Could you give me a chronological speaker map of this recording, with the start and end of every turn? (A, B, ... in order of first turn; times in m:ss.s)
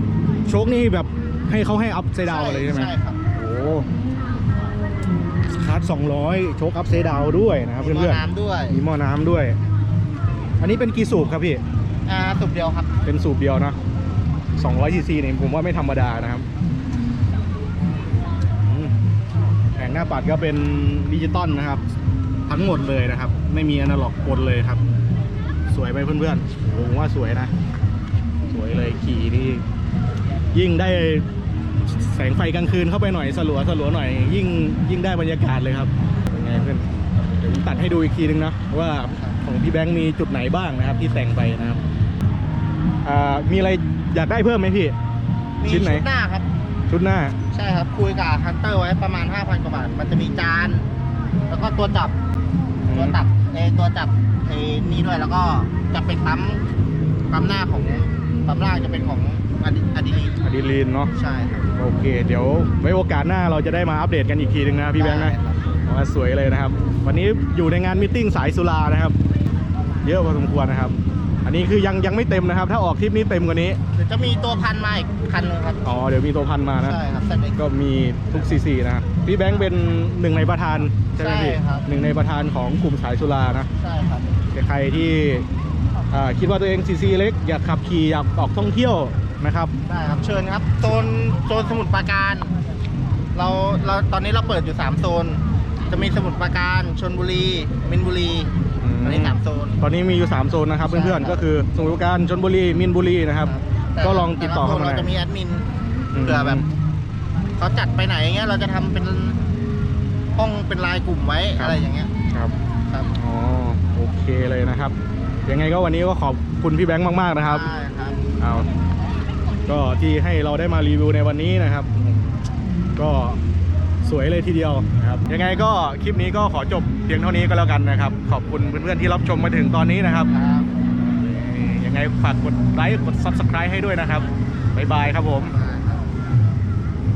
0:00.5-0:03.9 A
0:02.2-0:03.2 B
0:05.6-0:09.6 A
0:07.8-0:08.8 B
0:10.6-0:11.6 A
0:12.0-0:12.9 B
0:13.0-0:13.8 A
0:14.6-0:16.5 A
0:18.6-0:18.9 A
0:19.8-0:21.8 A
0:22.5-0:24.8 A
0:25.7-0:27.5 A
0:28.4-0:29.6 A
0:30.5-0:31.3 A
0:31.9-0:41.8 A
0:39.1-0:39.4 B
0:43.0-0:45.0 A
0:45.6-0:46.5 B
0:45.6-0:46.1 A
0:46.9-0:47.4 A
0:47.5-0:50.9 B
0:51.5-0:52.2 B
0:52.8-0:53.2 A
0:52.9-0:56.6 B
0:57.3-1:00.4 B
1:00.4-1:01.1 A
1:01.1-1:01.7 B
1:01.7-1:05.4 A
1:05.0-1:05.8 B
1:05.9-1:09.2 A
1:10.0-1:13.8 A
1:13.9-1:15.8 B
1:15.8-1:17.0 A
1:16.8-1:17.6 B
1:17.6-1:23.7 A
1:21.1-1:21.9 B
1:23.8-1:24.4 B
1:24.5-1:25.5 A
1:26.1-1:29.7 A
1:29.8-1:32.6 B
1:33.3-1:39.8 B
1:38.8-1:45.1 A
1:40.8-1:41.4 B
1:43.4-1:45.7 B
1:46.1-1:46.7 A
1:46.2-1:46.7 B
1:47.6-1:49.4 B
1:50.3-1:52.1 B
1:53.1-1:55.0 A
1:55.5-1:57.7 A
1:57.4-1:58.2 B
1:58.4-1:58.7 A
1:59.7-2:02.4 A
2:03.0-2:03.4 A
2:04.0-2:10.3 A
2:10.3-2:10.7 B
2:11.2-2:15.6 A
2:15.4-2:16.0 B